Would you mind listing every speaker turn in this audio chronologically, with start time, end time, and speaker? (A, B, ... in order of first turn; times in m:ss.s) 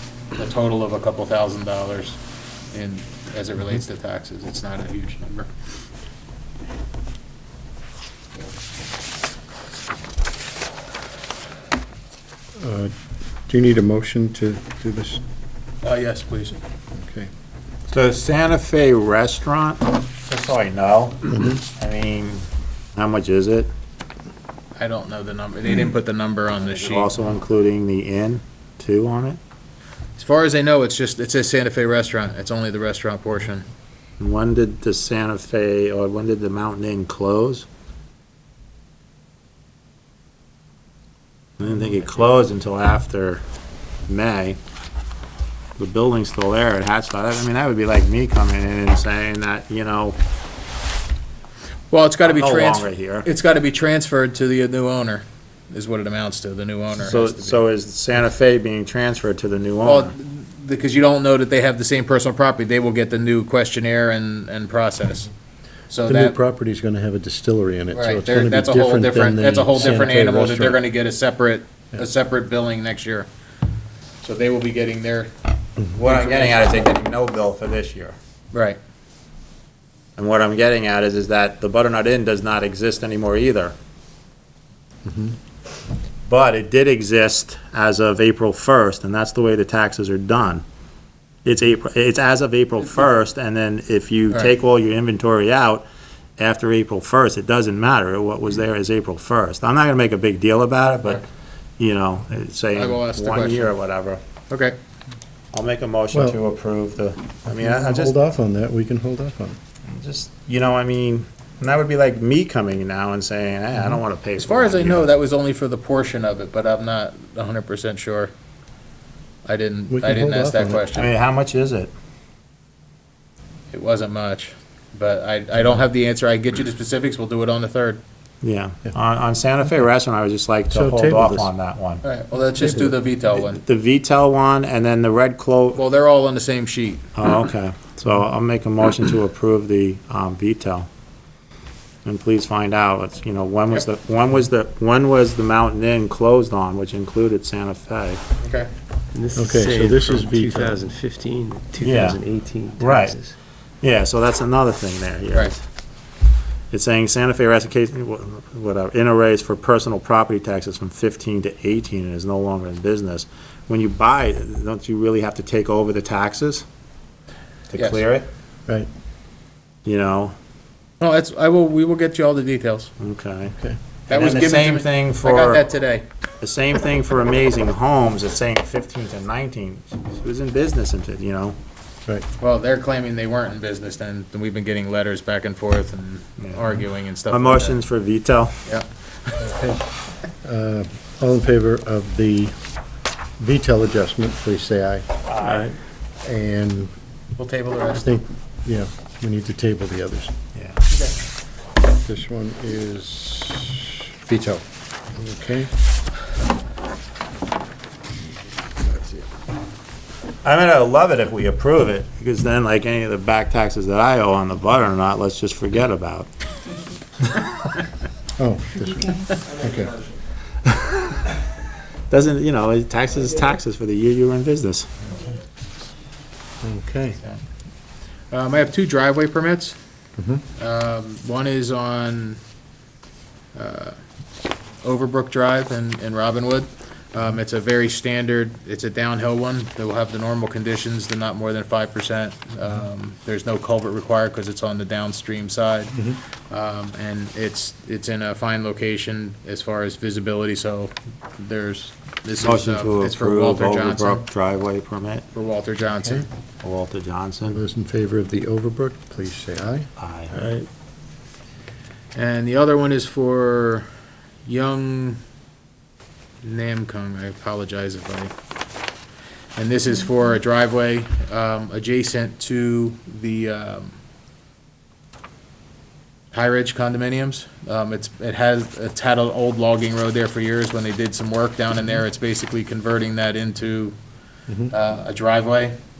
0:00.4-0:02.2 A
0:02.7-0:05.5 A
0:12.6-0:12.9 B
0:13.5-0:15.2 B
0:15.8-0:16.6 A
0:17.0-0:17.3 B
0:17.9-0:22.4 C
0:23.0-0:23.7 C
0:24.8-0:27.1 A
0:26.6-0:29.4 C
0:30.2-0:33.6 A
0:34.2-0:37.6 C
0:41.6-0:43.4 C
0:44.1-0:44.6 C
0:45.8-0:50.2 C
0:51.9-0:57.6 A
0:52.2-0:53.3 C
0:57.0-1:00.1 C
0:59.8-1:05.3 A
1:05.9-1:06.3 A
1:06.0-1:10.8 B
1:07.9-1:13.3 A
1:14.2-1:15.3 A
1:15.9-1:18.2 C
1:16.0-1:16.9 A
1:18.5-1:18.8 A
1:20.2-1:23.7 C
1:25.0-1:25.3 B
1:26.3-1:30.6 C
1:31.4-1:35.8 C
1:36.4-1:41.2 C
1:41.8-1:44.2 C
1:42.7-1:43.7 A
1:44.5-1:44.8 A
1:45.5-1:48.1 C
1:46.1-1:46.4 B
1:47.5-1:49.6 B
1:49.9-1:55.1 C
1:54.4-1:58.3 A
1:59.4-2:01.1 A
1:59.9-2:00.9 B
2:00.9-2:01.9 C
2:03.7-2:08.0 A
2:08.4-2:12.0 C
2:10.7-2:11.5 B
2:12.0-2:13.6 A
2:12.6-2:12.9 B
2:13.4-2:15.8 C
2:15.7-2:17.1 A
2:17.2-2:20.9 C
2:22.0-2:28.2 C
2:28.4-2:28.7 A
2:29.1-2:33.3 D
2:29.3-2:30.8 B
2:31.8-2:33.2 C
2:33.8-2:35.6 C
2:36.7-2:46.6 C
2:47.7-2:48.3 C
2:47.8-2:48.0 A
2:49.8-2:50.3 C
2:51.0-2:52.9 A
2:53.0-2:53.6 C
2:54.1-2:56.0 A
2:54.1-2:55.6 C
2:56.4-3:01.6 C
3:02.4-3:07.8 A
3:06.4-3:08.6 C
3:09.4-3:09.8 B
3:10.4-3:12.5 B
3:13.4-3:16.9 B
3:15.3-3:15.7 C
3:17.4-3:18.1 A
3:17.9-3:20.3 B
3:20.5-3:20.8 C
3:20.9-3:21.2 A
3:22.0-3:24.6 B
3:25.1-3:25.7 B
3:30.4-3:36.3 C
3:38.4-3:40.0 B
3:40.7-3:41.2 C
3:42.1-3:45.0 C
3:46.6-3:47.2 B
3:48.3-3:49.8 A
3:50.2-3:50.4 B
3:50.6-3:52.4 A
3:53.5-3:54.0 A
3:54.8-4:14.2 A
4:05.9-4:06.2 B
4:12.4-4:15.2 C
4:15.3-4:16.3 A
4:16.6-4:17.6 C
4:17.5-4:20.6 B
4:20.0-4:20.4 C
4:22.1-4:23.9 A
4:24.4-4:25.2 A
4:26.4-4:28.3 A
4:29.6-4:34.0 A
4:36.3-4:44.0 A
4:44.7-4:45.8 A